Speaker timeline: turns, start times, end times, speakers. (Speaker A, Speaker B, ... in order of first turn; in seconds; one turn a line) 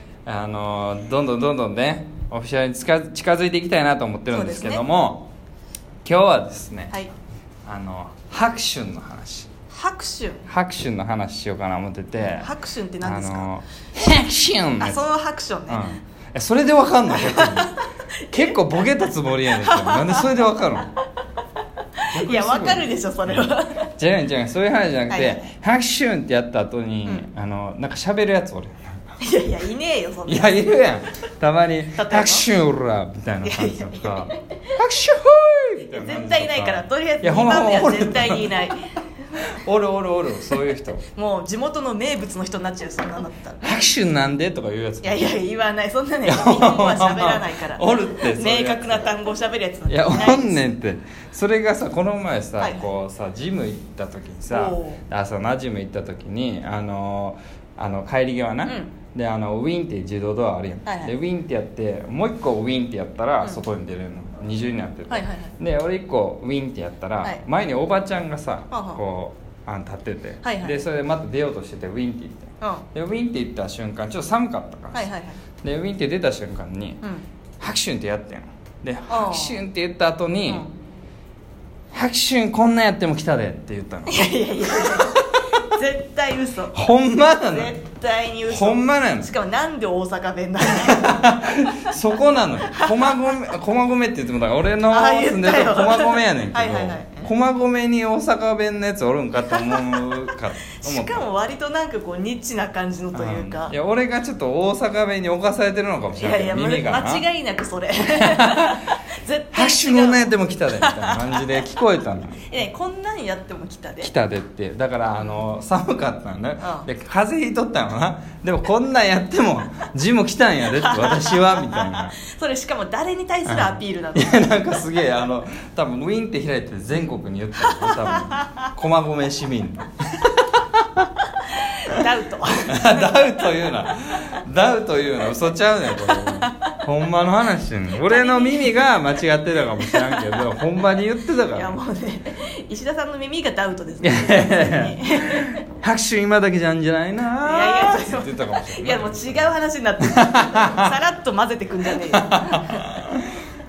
Speaker A: 0.2-5.3
Speaker B: 4.3-4.8
Speaker A: 6.0-6.9
Speaker A: 7.7-9.5
Speaker B: 9.7-10.5
Speaker A: 10.5-12.5
Speaker B: 12.2-13.5
Speaker A: 13.0-15.0
Speaker B: 14.8-15.9
Speaker A: 15.7-17.7
Speaker B: 17.1-18.8
Speaker A: 18.3-20.9
Speaker B: 19.6-20.4
Speaker B: 22.0-23.9
Speaker A: 22.1-29.1
Speaker B: 25.1-25.4
Speaker B: 29.2-30.7
Speaker A: 30.3-38.6
Speaker B: 31.9-32.5
Speaker B: 33.4-34.6
Speaker B: 35.9-39.0
Speaker A: 39.5-41.0
Speaker B: 41.1-43.6
Speaker A: 43.6-45.3
Speaker B: 45.0-50.6
Speaker A: 46.2-49.0
Speaker A: 49.9-75.1
Speaker B: 52.6-52.9
Speaker B: 54.5-55.0
Speaker B: 58.6-58.9
Speaker B: 60.9-61.1
Speaker B: 65.1-65.5
Speaker B: 68.7-69.0
Speaker B: 70.4-70.8
Speaker B: 72.6-72.8
Speaker B: 74.9-75.4
Speaker A: 75.6-77.0
Speaker A: 77.6-80.7
Speaker B: 79.1-79.6
Speaker A: 81.9-84.2
Speaker B: 84.1-86.8
Speaker A: 84.8-85.2
Speaker A: 86.7-87.7
Speaker B: 87.5-91.3
Speaker A: 88.5-89.3
Speaker A: 90.7-101.3
Speaker B: 92.7-93.5
Speaker B: 94.9-97.3
Speaker B: 99.5-103.7
Speaker A: 103.1-107.2
Speaker B: 106.2-111.6
Speaker A: 108.1-108.8
Speaker A: 109.5-112.4
Speaker B: 112.5-114.1
Speaker A: 114.0-122.2
Speaker B: 116.6-116.9
Speaker B: 120.7-124.5
Speaker A: 123.5-131.1
Speaker B: 127.6-128.7
Speaker B: 131.5-133.5
Speaker A: 132.7-141.8
Speaker B: 136.1-136.8
Speaker B: 138.0-139.0
Speaker B: 139.8-140.4
Speaker B: 141.5-145.6
Speaker A: 144.0-150.9
Speaker B: 147.4-153.0
Speaker A: 152.1-153.3